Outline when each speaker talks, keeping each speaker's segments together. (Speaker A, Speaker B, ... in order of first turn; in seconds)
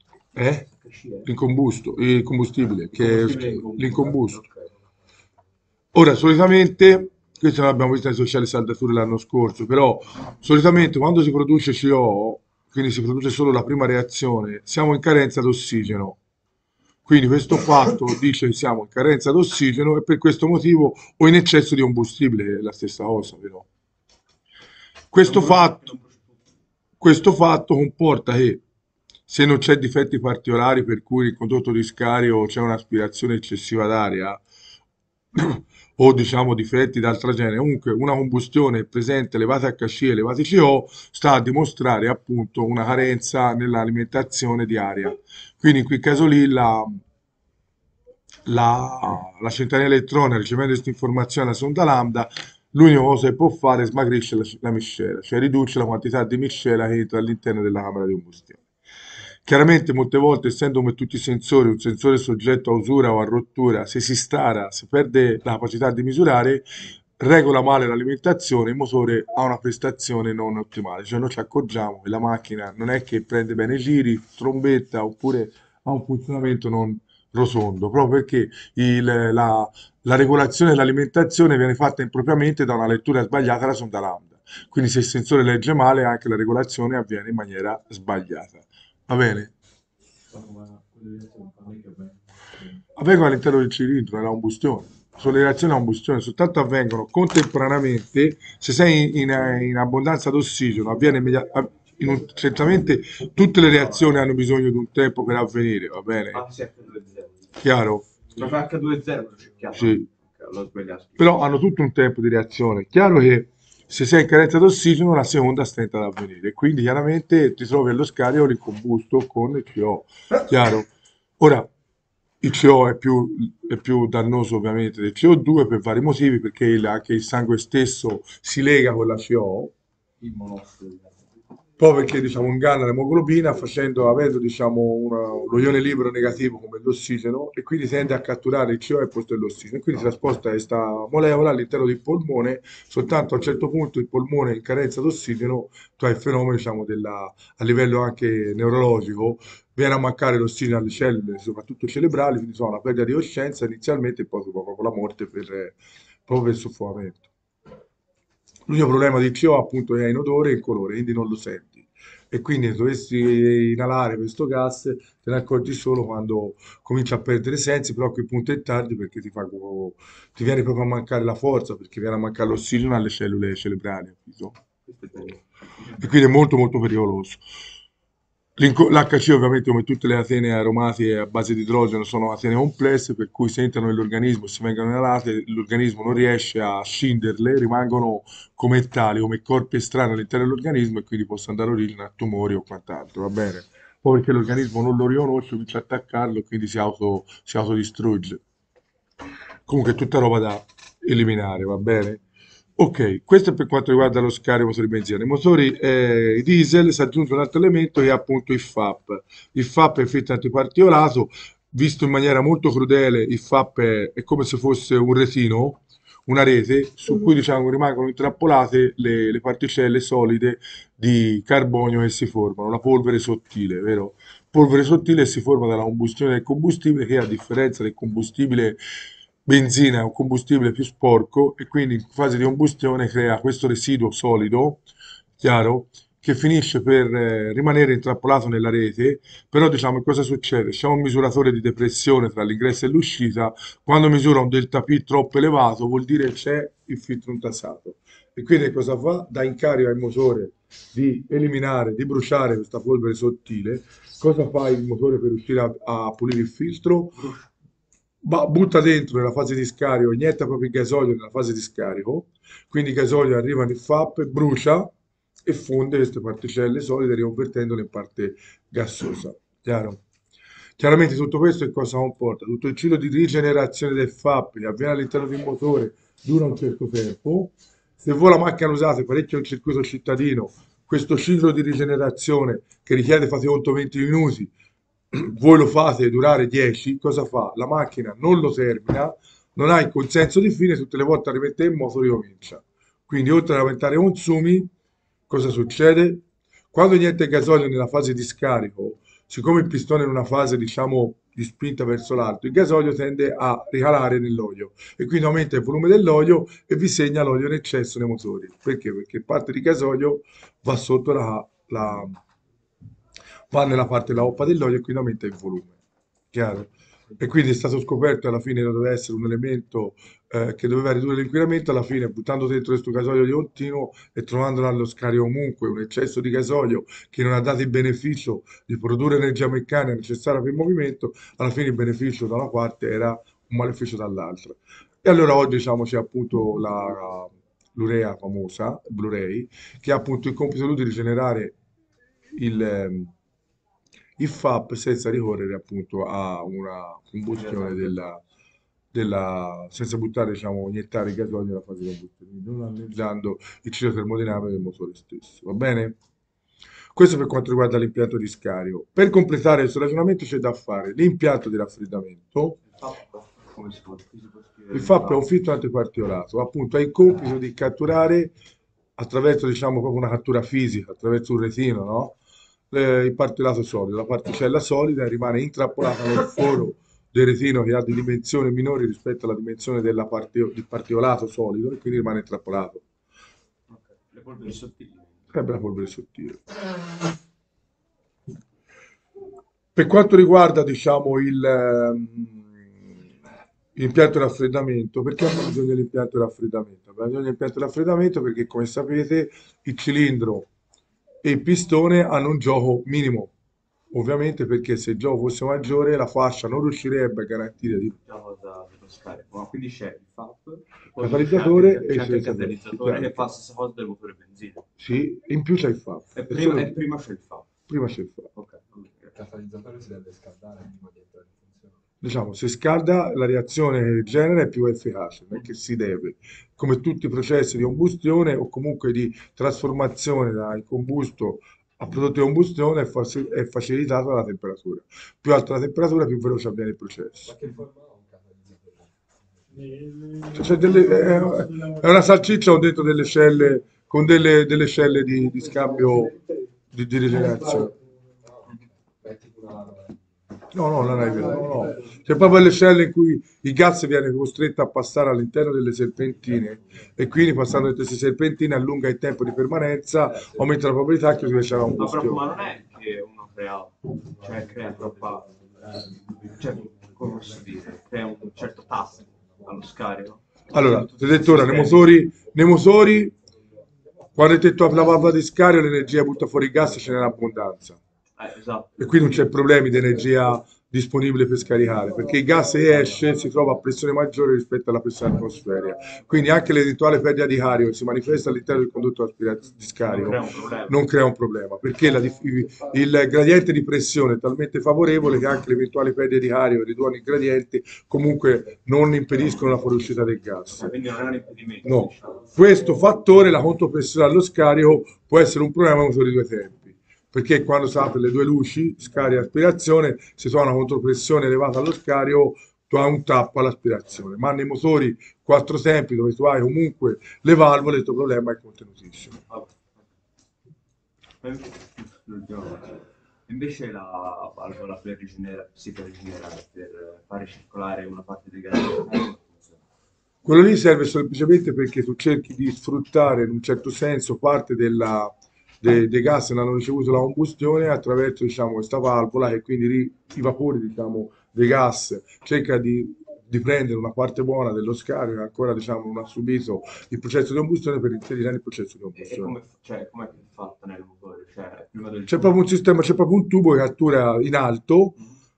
Speaker A: 0.3-0.7, 1.2-4.4, 5.9-16.2, 17.0-23.6, 25.1-25.9, 27.0-28.6, 29.3-34.4, 35.3-47.0, 48.5-58.6, 59.4-66.6, 67.2-89.5, 93.0-106.4, 107.6-108.1, 109.7-110.0, 111.2-121.7, 122.4-129.7, 131.8-155.8, 156.3-157.3, 158.7-174.6, 176.0-177.4, 178.6-198.4, 199.7-202.2, 202.8-228.8, 229.4-234.8, 235.4-257.2, 258.2-264.9, 265.4-270.0, 270.8-284.5, 285.1-294.7, 295.3-312.2, 313.5-315.8, 316.3-341.5, 342.4-343.1, 344.2-348.2, 348.9-356.0, 356.9-362.6, 364.7-368.3, 369.0-372.1, 372.7-382.8, 385.3-386.4, 389.7-392.6, 393.7-400.5, 401.2-403.3, 403.9-407.9, 411.0-413.3, 414.8-416.8, 417.7-418.3, 422.0-437.3, 440.3-446.1, 446.7-447.7, 450.5-462.2, 470.5-473.1, 474.1-477.8, 478.8-500.7, 501.6-519.2, 530.2-549.4, 552.1-555.0
Speaker B: 0.7-1.3, 2.9-4.7, 25.2-26.2, 91.4-92.1, 106.3-107.4, 108.3-111.4, 174.9-175.3, 257.2-257.4, 347.3-348.0, 362.8-365.3, 383.7-385.3, 408.0-414.6, 416.1-417.5, 418.3-419.1, 461.7-465.3, 466.3-471.9, 478.2-479.1, 489.9-490.9, 500.5-502.3, 519.3-519.7, 521.2-529.6, 549.0-552.3
Speaker C: 130.2-131.1, 419.1-421.8, 437.2-439.8, 448.2-450.0, 460.1-460.4